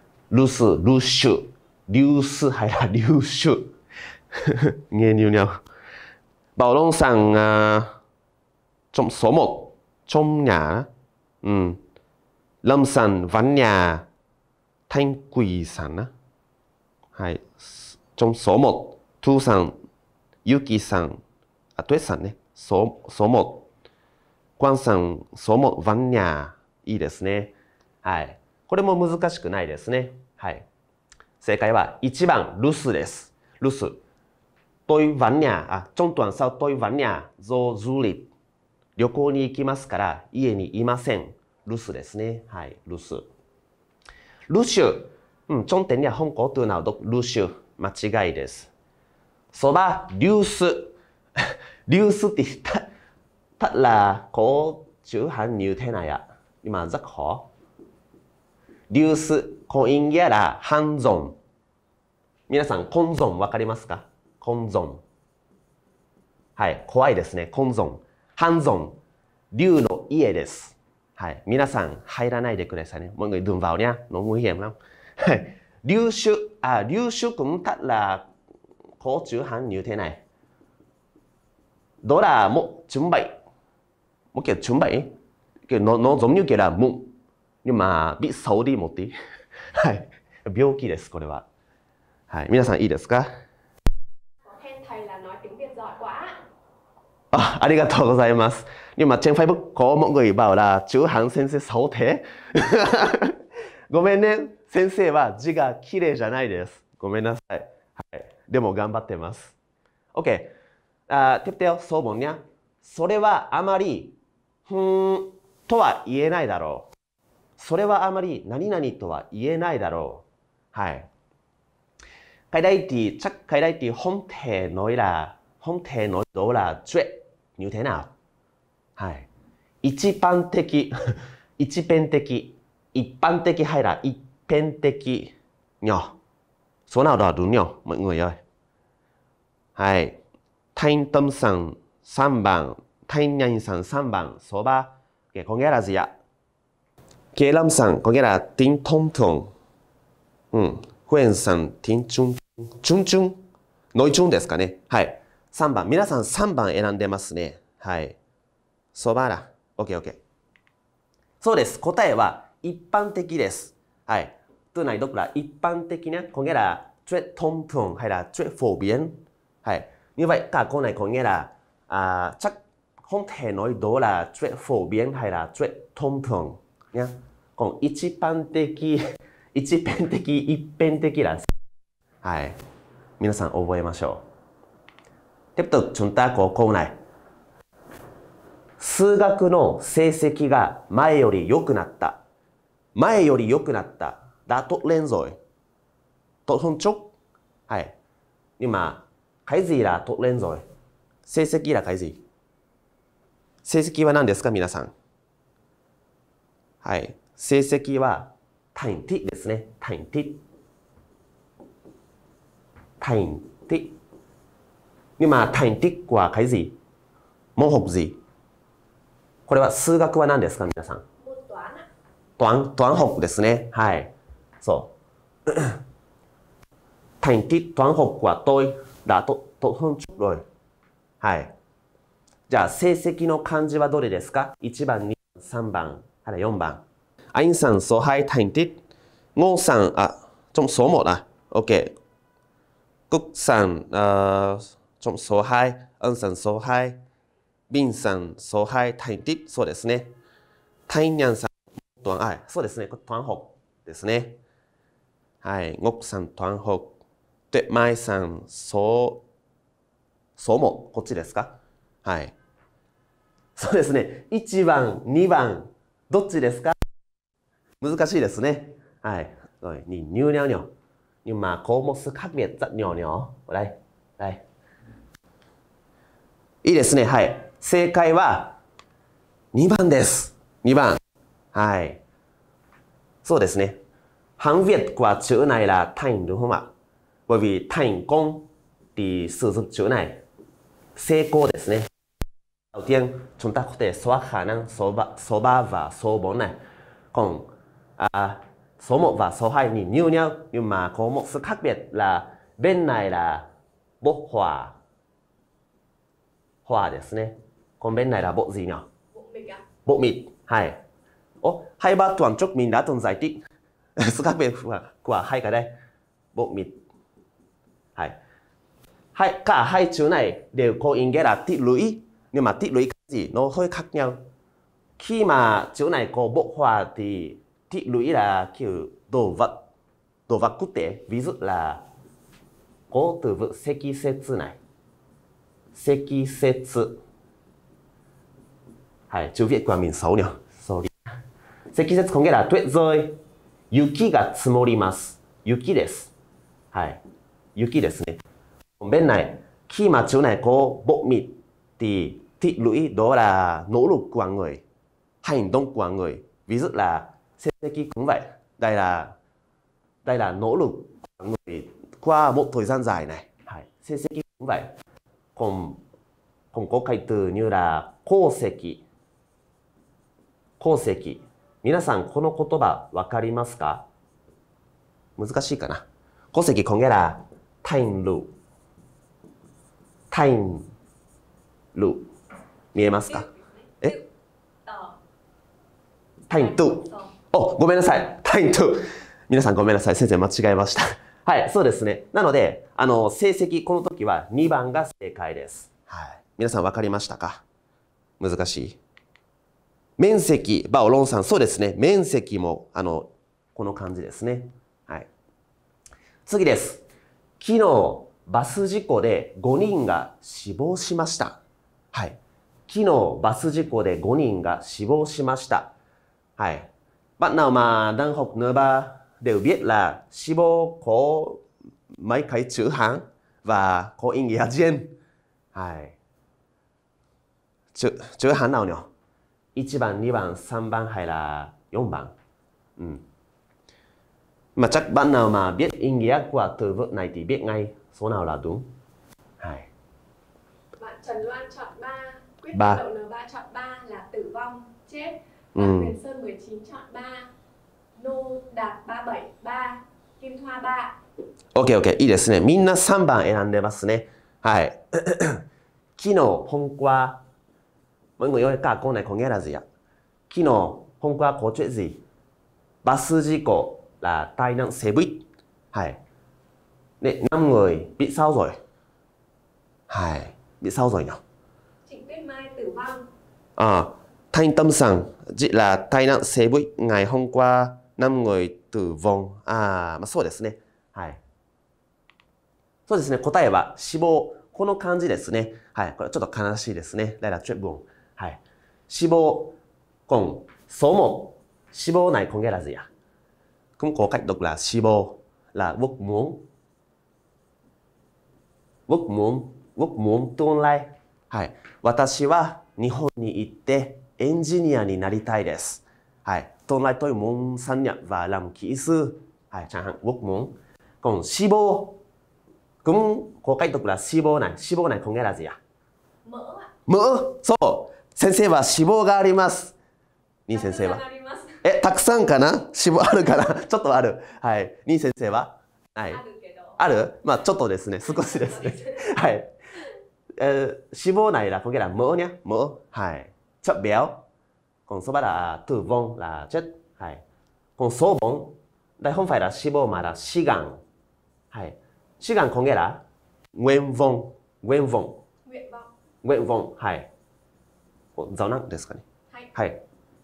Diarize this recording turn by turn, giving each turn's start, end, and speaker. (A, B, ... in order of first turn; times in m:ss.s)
0:00.3-0:03.7 A
0:04.3-0:05.5 A
0:06.6-0:07.9 A
0:08.9-0:10.9 A
0:11.4-0:11.8 A
0:12.6-0:14.0 A
0:14.9-0:16.1 A
0:17.2-0:19.7 A
0:20.4-0:21.2 A
0:21.8-0:23.6 A
0:24.6-0:30.6 A
0:31.4-0:34.0 A
0:34.9-0:38.3 A
0:39.0-0:43.2 A
0:44.5-0:48.7 A
0:49.5-0:52.8 A
0:53.6-0:57.4 A
0:58.9-1:01.4 A
1:02.5-1:05.0 A
1:06.6-1:09.0 A
1:09.5-1:18.2 A
1:19.0-1:20.2 A
1:22.0-1:23.3 A
1:24.3-1:25.1 A
1:25.7-1:27.1 A
1:27.6-1:29.1 A
1:29.7-1:31.4 A
1:32.3-1:33.3 A
1:34.4-1:36.3 B
1:37.3-1:43.4 A
1:43.9-1:49.5 A
1:50.1-1:50.5 A
1:51.1-1:54.2 A
1:54.7-1:56.9 A
1:57.6-2:01.1 A
2:02.5-2:08.1 A
2:09.0-2:09.3 A
2:09.8-2:16.1 A
2:16.9-2:18.4 A
2:19.8-2:20.2 A
2:20.8-2:26.1 A
2:27.3-2:29.5 A
2:30.5-2:33.4 A
2:33.9-2:38.2 A
2:38.9-2:40.2 A
2:41.4-2:59.0 A
2:59.5-3:01.5 A
3:02.2-3:02.6 A
3:03.2-3:04.2 A
3:05.6-3:06.9 A
3:08.8-3:12.2 A
3:12.9-3:15.4 A
3:16.5-3:17.1 A
3:18.6-3:20.6 A
3:21.2-3:22.2 A
3:23.6-3:24.9 A
3:26.8-3:30.4 A
3:33.0-3:33.9 A
3:35.2-3:36.8 A
3:37.6-3:38.1 A
3:39.5-3:41.0 A
3:41.2-3:41.8 B
3:42.4-3:44.1 A
3:44.6-3:44.9 A
3:45.5-3:45.8 A
3:47.2-3:50.4 A
3:51.2-3:51.5 A
3:52.5-3:56.8 A
3:57.3-3:58.8 A
3:59.4-4:01.9 A
4:03.1-4:07.0 A
4:07.7-4:10.1 A
4:10.9-4:14.4 A
4:15.4-4:16.9 A
4:17.5-4:19.2 A
4:20.4-4:22.3 A
4:23.6-4:26.7 A
4:27.8-4:30.7 A
4:31.2-4:34.4 A
4:36.6-4:38.5 A
4:39.5-4:41.0 A
4:41.5-4:42.0 A
4:43.2-4:43.8 A
4:44.4-4:46.7 A
4:47.3-4:50.2 A
4:51.0-4:51.9 A
4:52.7-4:56.6 A
4:57.1-5:03.4 A
5:04.0-5:04.7 A
5:06.6-5:08.8 A
5:09.1-5:09.6 B
5:09.8-5:10.8 A
5:11.4-5:13.4 A
5:14.0-5:15.7 A
5:16.3-5:16.7 A
5:19.1-5:24.2 A
5:25.0-5:29.6 A
5:30.3-5:31.8 A
5:32.9-5:34.6 A
5:35.7-5:37.0 A
5:39.1-5:41.0 A
5:41.7-5:43.2 A
5:43.7-5:46.1 A
5:46.7-5:47.0 A
5:47.6-5:48.2 A
5:48.8-5:54.6 A
5:55.2-5:59.1 A
6:00.0-6:04.6 A
6:05.4-6:05.8 A
6:06.5-6:08.8 A
6:10.6-6:13.8 A
6:15.2-6:18.3 A
6:20.1-6:20.7 A
6:21.7-6:22.1 A
6:22.7-6:23.3 A
6:23.1-6:24.0 B
6:24.6-6:25.0 B
6:26.3-6:37.4 A
6:26.3-6:27.1 B
6:38.2-6:38.8 A
6:40.0-6:45.1 A
6:46.2-6:46.8 A
6:47.4-6:51.4 A
6:51.9-6:55.7 A
6:56.4-7:04.9 A
7:05.5-7:05.9 A
7:07.7-7:08.9 A
7:09.5-7:12.1 A
7:12.8-7:13.0 A
7:14.6-7:18.7 A
7:19.4-7:19.7 A
7:20.8-7:27.3 B
7:22.5-7:22.8 A
7:25.5-7:25.9 A
7:28.0-7:31.0 B
7:31.5-7:35.4 A
7:36.0-7:37.2 A
7:38.2-7:39.6 A
7:40.3-7:42.0 A
7:42.8-7:46.0 A
7:47.0-7:48.6 A
7:49.9-7:51.2 A
7:51.9-7:53.0 B
7:53.6-8:01.2 A
8:02.9-8:09.6 A
8:10.1-8:12.9 A
8:13.8-8:16.4 A
8:18.9-8:32.0 A
8:32.8-8:35.6 A
8:36.2-8:36.7 B
8:36.9-8:39.7 A
8:40.5-8:41.0 A
8:40.5-8:41.6 B
8:41.6-8:46.2 A
8:46.1-8:46.8 B
8:46.8-8:49.5 A
8:48.0-8:49.1 B
8:50.4-8:54.2 A
8:54.9-8:57.2 A
8:57.8-9:00.8 A
9:01.5-9:03.0 A
9:03.5-9:05.2 A
9:05.4-9:05.9 B
9:06.2-9:07.1 A
9:08.2-9:09.8 A